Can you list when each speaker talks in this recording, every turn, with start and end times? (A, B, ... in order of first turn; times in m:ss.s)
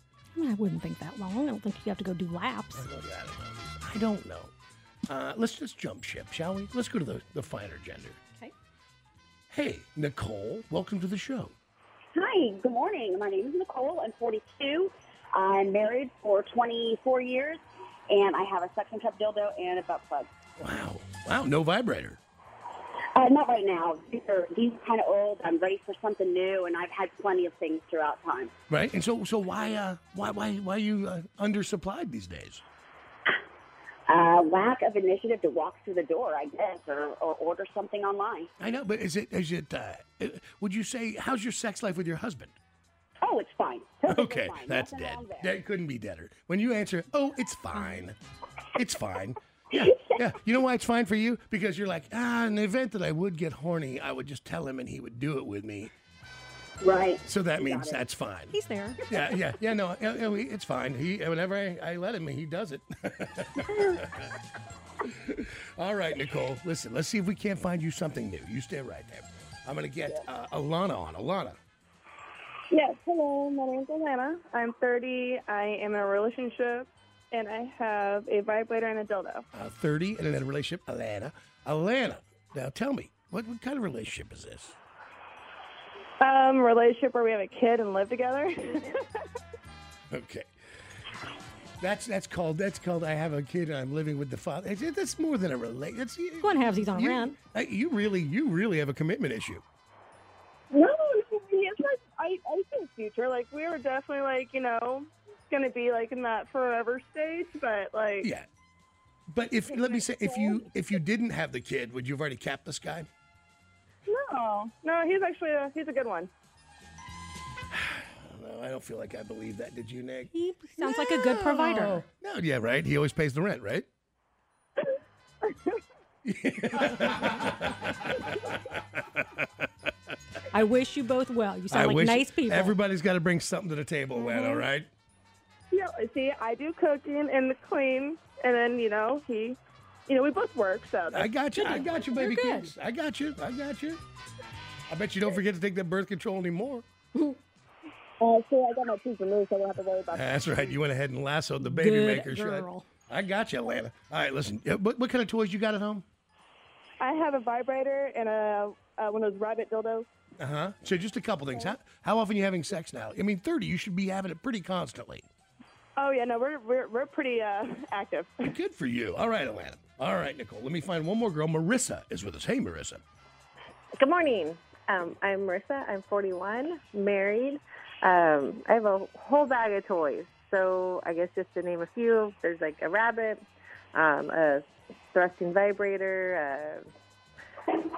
0:00.3-0:02.9 A
0:02.7-0:04.5 B
0:05.1-0:08.2 B
0:09.5-0:11.5 B
0:12.1-0:20.3 C
0:20.6-0:22.2 B
0:23.1-0:28.5 C
0:28.7-0:32.6 B
0:34.1-0:38.5 C
0:38.6-0:42.6 B
0:43.2-0:45.6 C
0:44.0-0:48.2 B
0:48.8-0:55.9 B
0:49.8-0:50.2 C
0:56.8-0:58.0 C
0:57.2-0:58.6 B
0:58.5-0:59.0 A
0:59.1-1:04.3 B
1:05.0-1:11.6 B
1:12.7-1:19.4 D
1:19.5-1:24.7 B
1:26.2-1:29.2 D
1:30.1-1:30.5 B
1:31.8-1:39.6 B
1:36.4-1:37.4 A
1:40.7-1:48.3 D
1:48.2-1:48.4 B
1:49.3-1:53.1 B
1:49.7-1:50.6 D
1:54.0-1:56.3 D
1:57.7-2:03.8 B
2:00.3-2:02.0 A
2:05.4-2:05.8 D
2:06.2-2:09.7 B
2:10.5-2:12.8 A
2:11.7-2:14.9 B
2:14.2-2:14.6 D
2:15.7-2:21.3 D
2:21.1-2:24.0 B
2:21.6-2:22.7 A
2:24.9-2:26.8 B
2:28.2-2:30.7 D
2:30.1-2:36.0 B
2:31.6-2:32.9 A
2:37.0-2:40.1 D
2:40.4-2:45.3 B
2:46.0-2:48.4 D
2:48.4-2:53.0 B
2:54.0-3:03.4 E
3:03.9-3:06.8 E